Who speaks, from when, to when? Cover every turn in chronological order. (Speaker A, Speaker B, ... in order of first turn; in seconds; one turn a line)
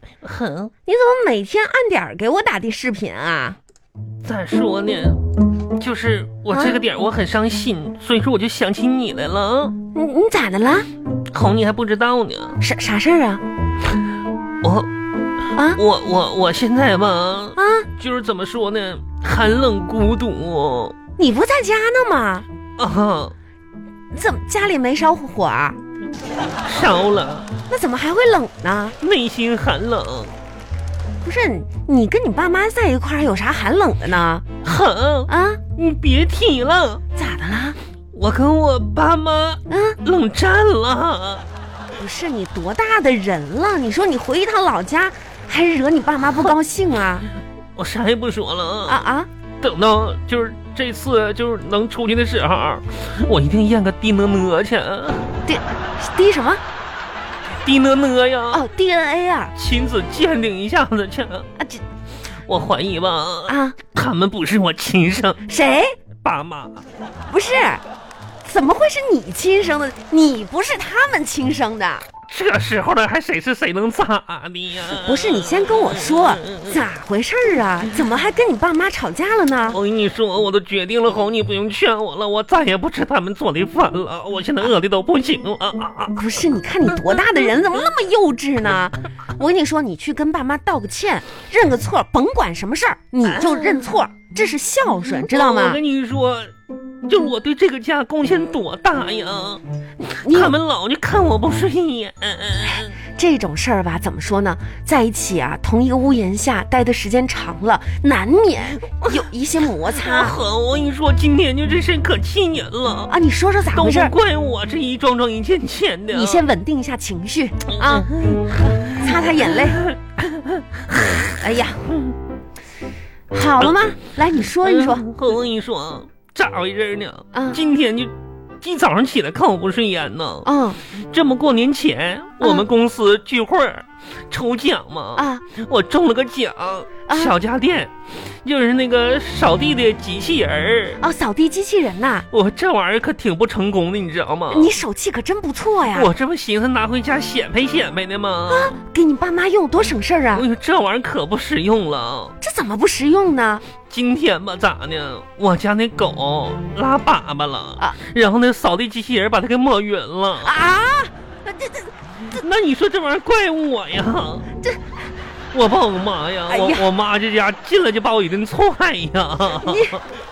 Speaker A: 0.2-0.7
Speaker B: 0.9-3.6
Speaker A: 4.2-5.2
Speaker A: 5.8-9.8
Speaker B: 9.9-10.9
Speaker A: 11.3-12.6
Speaker B: 12.6-13.4
Speaker A: 14.6-14.9
Speaker B: 15.6-15.8
Speaker A: 15.7-21.0
Speaker B: 17.6-17.9
Speaker B: 21.2-22.5
Speaker A: 22.8-23.3
Speaker B: 24.1-25.8
Speaker A: 26.7-27.5
Speaker B: 27.7-28.9
Speaker A: 29.0-30.3
Speaker B: 31.2-34.4
Speaker A: 34.6-37.0
Speaker B: 35.3-35.6
Speaker B: 37.1-37.8
Speaker A: 38.1-41.5
Speaker B: 39.7-40.0
Speaker B: 42.0-47.3
Speaker A: 47.8-49.0
Speaker B: 48.9-49.3
Speaker A: 49.6-55.4
Speaker B: 55.5-56.6
Speaker A: 57.6-58.6
Speaker B: 58.5-59.5
Speaker A: 59.5-61.5
Speaker B: 61.6-61.8
Speaker A: 62.5-65.4
Speaker B: 63.5-63.8
Speaker B: 65.5-66.0
Speaker A: 66.2-66.9
Speaker B: 67.3-67.8
Speaker B: 68.4-72.1
Speaker A: 72.3-76.8
Speaker B: 74.8-79.8
Speaker A: 79.7-86.2
Speaker B: 86.2-95.8
Speaker A: 93.2-93.9
Speaker A: 95.1-96.5
Speaker A: 97.0-99.6
Speaker B: 100.0-100.6
Speaker A: 100.2-103.0
Speaker B: 103.0-110.4
Speaker A: 109.8-113.1
Speaker B: 113.1-114.1
Speaker A: 113.7-116.5
Speaker B: 116.1-118.1
Speaker A: 117.7-121.4
Speaker B: 118.7-119.9
Speaker B: 121.2-121.8
Speaker A: 121.9-122.2
Speaker B: 123.3-125.1
Speaker A: 123.6-124.0
Speaker A: 124.6-141.0
Speaker B: 127.3-127.6
Speaker B: 130.4-130.8
Speaker B: 132.4-132.7
Speaker B: 135.2-135.4
Speaker B: 137.1-137.3
Speaker B: 141.0-142.3
Speaker A: 142.3-144.7
Speaker B: 144.5-146.1
Speaker A: 145.9-148.8
Speaker B: 148.5-150.5
Speaker A: 150.3-152.3
Speaker B: 152.4-153.6
Speaker A: 153.9-160.5
Speaker B: 160.4-161.9
Speaker A: 162.3-164.5
Speaker A: 165.5-170.0
Speaker B: 166.5-166.8
Speaker B: 169.6-170.0